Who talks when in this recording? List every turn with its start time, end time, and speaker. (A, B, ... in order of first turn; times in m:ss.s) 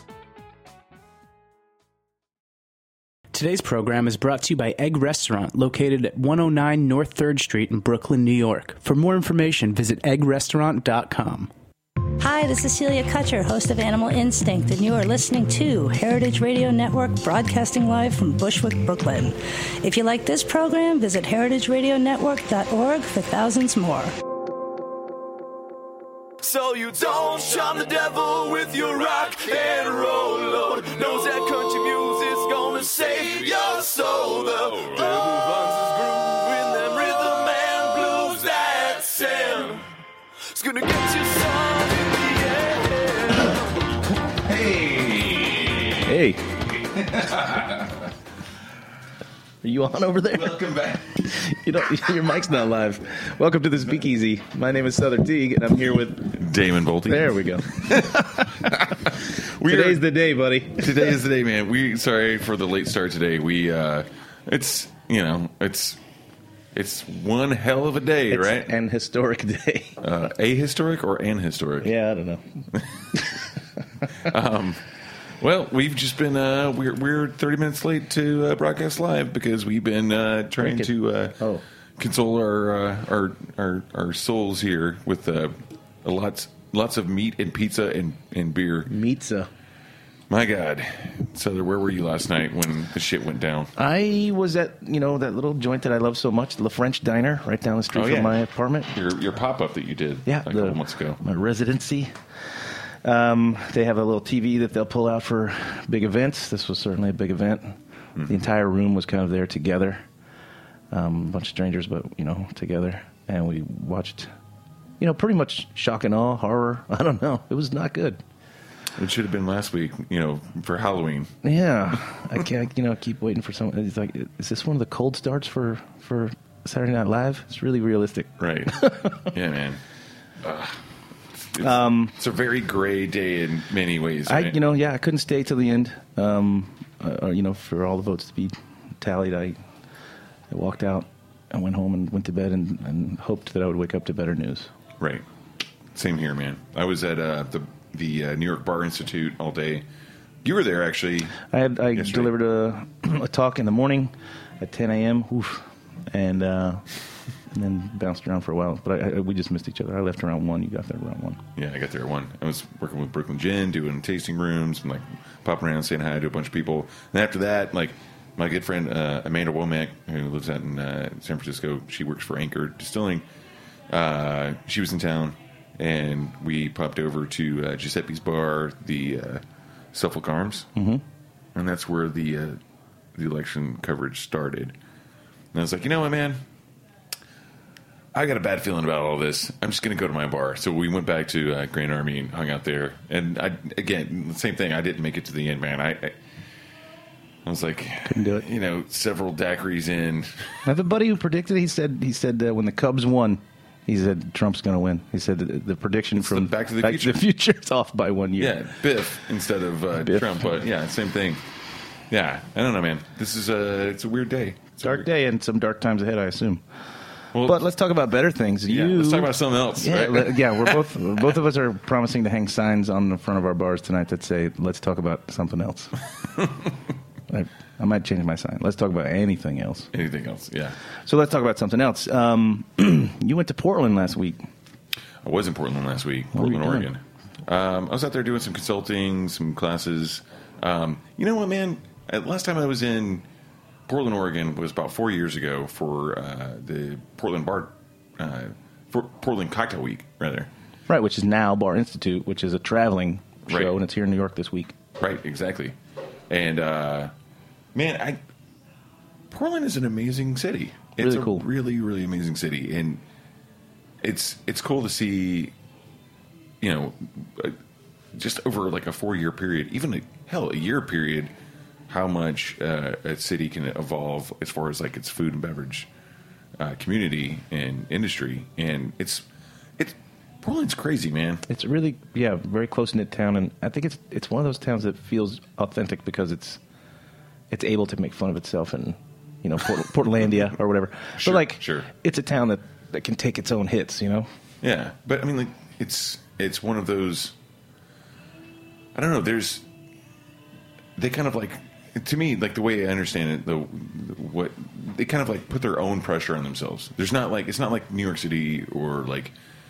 0:03.3-0:11.5 A
0:12.2-0:24.2 B
0:26.4-0:39.9 C
0:40.5-0:43.6 C
0:44.2-0:46.1 D
0:46.0-0:46.5 E
0:46.8-0:48.1 D
0:49.6-0:50.6 E
0:50.3-0:51.3 D
0:51.2-0:56.4 E
0:56.3-1:00.0 D
0:57.0-1:01.2 E
1:00.8-1:06.0 D
1:06.8-1:08.8 D
1:08.3-1:10.0 E
1:10.0-1:11.9 D
1:11.8-1:13.5 E
1:12.7-1:13.4 D
1:14.1-1:21.4 D
1:20.6-1:21.6 E
1:22.0-1:28.9 D
1:28.9-1:29.5 E
1:30.3-1:33.7 D
1:33.8-1:38.9 E
1:37.9-1:41.2 D
1:40.3-1:50.0 E
1:48.2-1:48.5 D
1:50.9-1:54.3 E
1:55.0-1:58.2 E
1:59.0-2:01.3 D
2:01.4-2:09.1 E
2:08.4-2:09.8 D
2:10.4-2:10.8 D
2:11.4-2:14.6 D
2:11.6-2:12.2 E
2:14.3-2:19.6 E
2:20.5-2:24.7 E
2:26.0-2:29.8 D
2:30.4-2:31.4 D
2:31.5-2:36.9 E
2:31.9-2:32.3 D
2:37.5-2:41.4 E
2:41.6-2:53.2 D
2:53.9-2:59.4 D
2:59.9-3:00.7 D
3:00.8-3:01.0 E
3:01.6-3:02.6 D
3:03.2-3:04.8 D
3:05.5-3:06.4 D
3:08.1-3:16.2 D
3:17.4-3:20.6 D
3:18.0-3:18.5 E
3:20.6-3:28.6 E
3:26.2-3:27.2 D
3:28.4-3:31.4 D
3:30.0-3:30.5 E
3:32.1-3:35.1 D
3:34.8-3:36.6 E
3:37.3-3:37.6 D
3:37.4-3:46.0 E
3:38.7-3:41.0 D
3:47.3-3:49.9 E
3:49.9-3:50.8 D
3:51.0-3:54.5 E
3:55.2-4:03.2 D
3:56.3-3:56.9 E
4:03.9-4:10.5 D
4:10.9-4:14.7 E
4:13.5-4:13.8 D
4:15.0-4:15.8 D
4:16.3-4:17.1 D
4:17.8-4:18.2 D
4:19.3-4:23.0 D
4:21.0-4:21.4 E
4:24.0-4:25.5 D
4:26.6-4:27.6 D
4:28.1-4:31.3 D
4:31.9-4:35.9 D
4:36.6-4:39.2 D
4:39.8-4:41.4 D
4:41.5-4:46.6 E
4:47.5-4:54.3 E
4:51.2-4:51.9 D
4:54.6-4:57.4 D
4:59.0-4:59.6 D
5:01.0-5:09.3 D